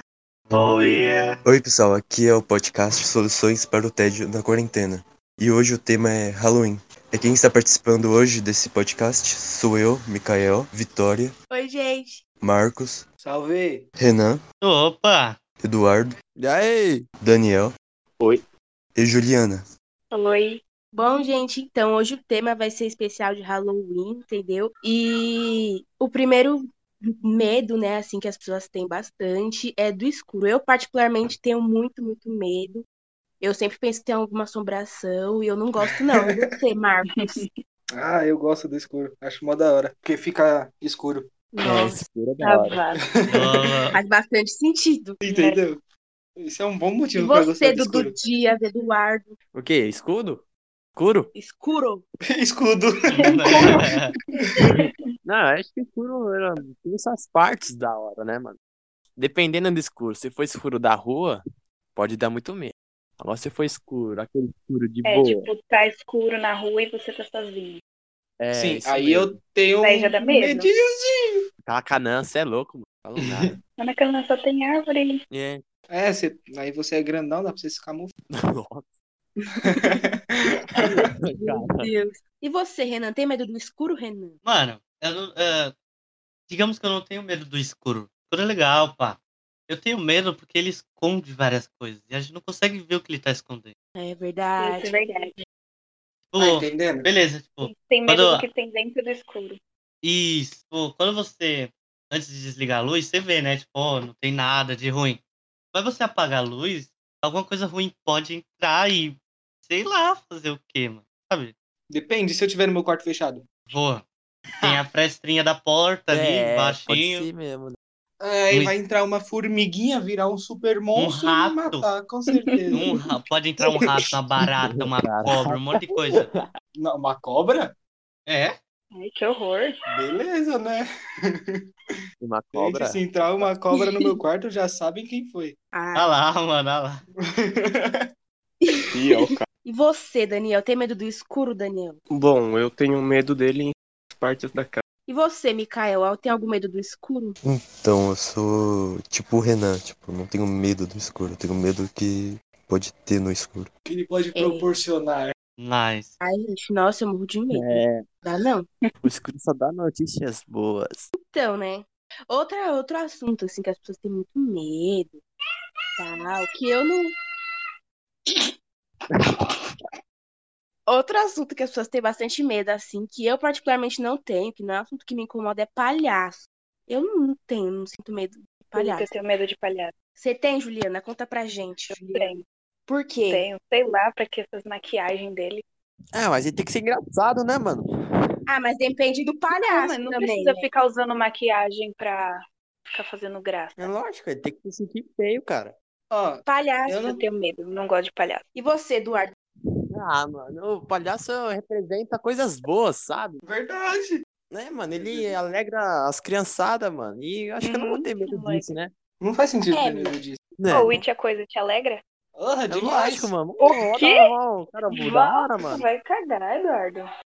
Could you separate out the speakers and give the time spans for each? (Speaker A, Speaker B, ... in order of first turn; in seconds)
Speaker A: 0.5-1.4, 14.6-15.4, 43.3-44.0, 53.1-54.1, 84.4-85.7, 86.5-93.7, 96.3-98.4, 100.0-105.2, 105.7-111.5, 113.7-114.0, 114.6-117.3, 118.5-118.8, 120.9-121.9, 122.7-126.3, 128.3-128.6, 135.9-137.0, 155.6-156.1
Speaker B: 1.4-11.3, 12.4-13.1, 13.9-14.4, 15.6-16.1, 17.2-17.7, 18.9-19.6, 147.4-153.7
Speaker C: 11.5-12.2, 20.9-26.6, 27.2-32.8, 33.4-37.4, 43.9-45.6, 47.1-49.4, 51.3-52.0, 79.4-79.8, 80.8-84.4, 94.0-95.0, 133.7-134.1, 135.7-136.1, 138.6-142.0, 145.1-147.4, 154.3-154.7, 156.2-158.7, 161.2-165.2, 166.0-167.1, 170.9-179.1, 180.2-182.3, 182.9-183.5, 188.5-190.7, 196.4-197.2, 198.5-199.3, 209.7-210.2
Speaker D: 13.2-13.8, 35.8-36.5, 37.9-41.3, 43.0-43.8, 45.2-45.8, 46.4-48.1, 52.3-53.9, 68.5-71.4, 73.2-73.5, 75.9-78.1, 79.7-81.1, 96.4-97.1, 111.9-113.4, 118.2-122.9, 123.7-124.0, 126.7-127.7, 129.9-131.6, 132.5-135.6, 137.2-138.1, 153.8-155.3, 196.1-197.2, 203.4-204.2, 204.9-205.4, 209.2-210.4, 212.3-213.4
Speaker E: 16.4-17.1, 41.6-42.8, 49.5-50.4, 51.0-51.3, 55.2-58.6, 59.2-61.4, 62.0-65.5, 68.4-69.4, 71.6-73.6, 75.3-75.6, 78.3-78.9, 80.8-81.9, 116.1-117.8, 124.6-126.5, 132.2-133.6, 157.5-158.0, 159.0-161.1, 186.1-187.8, 193.8-195.7, 199.9-203.4, 204.5-208.9, 210.6-211.0, 212.7-215.8
Speaker F: 20.1-20.6, 37.1-37.5, 41.5-43.0, 53.2-53.8, 65.0-67.8, 69.8-70.7, 73.8-75.2, 94.6-95.3, 97.6-99.6, 122.3-122.8, 128.9-129.7, 178.7-179.9, 181.9-182.4, 183.3-185.6, 189.5-192.3, 192.9-193.9, 197.2-198.4, 207.6-208.7, 210.7-212.0, 213.6-214.3, 214.9-217.1
Speaker G: 138.9-139.4, 142.1-144.8